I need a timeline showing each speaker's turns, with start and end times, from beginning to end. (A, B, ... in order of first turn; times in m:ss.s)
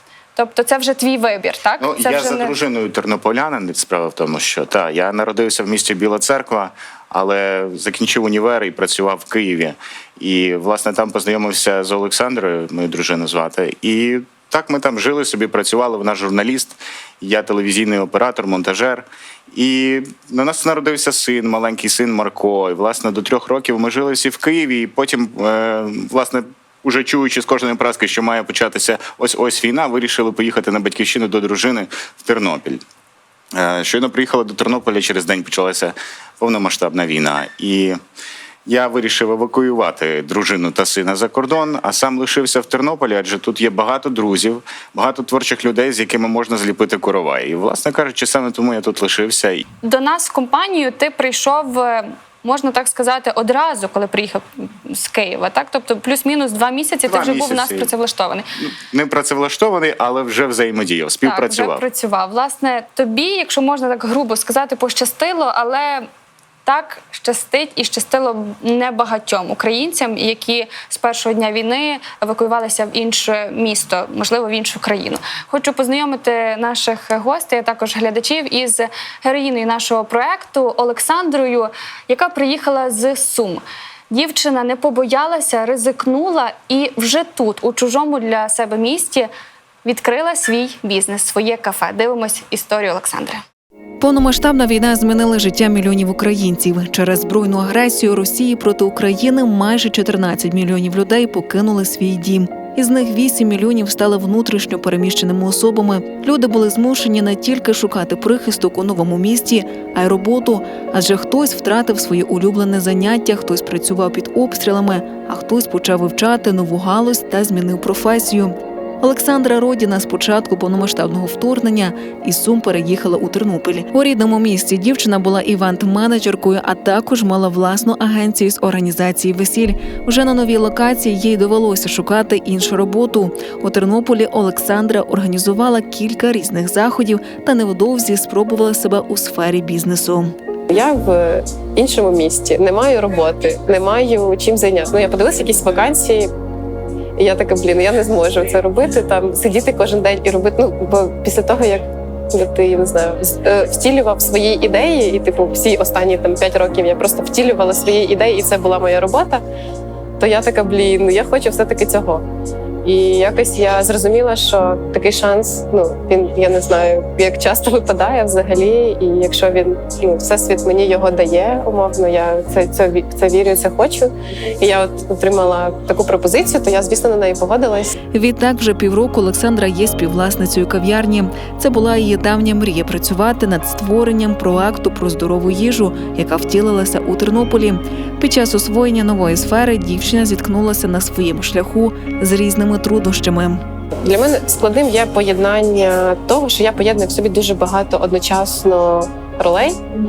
0:00.4-0:02.5 A
0:01.8-0:32.8 B
0:33.5-0:38.0 B
0:38.6-0:49.6 B
0:49.8-0:58.5 A
0:57.1-0:57.9 B
0:58.6-1:01.8 B
1:01.2-1:06.1 A
1:06.6-1:29.3 A
1:29.8-1:33.4 A
1:34.0-2:20.3 C
2:20.7-2:26.3 D
2:27.2-2:39.4 D
2:40.2-2:42.2 D
2:42.8-2:57.9 D
2:58.1-3:13.6 C
3:14.0-3:19.8 D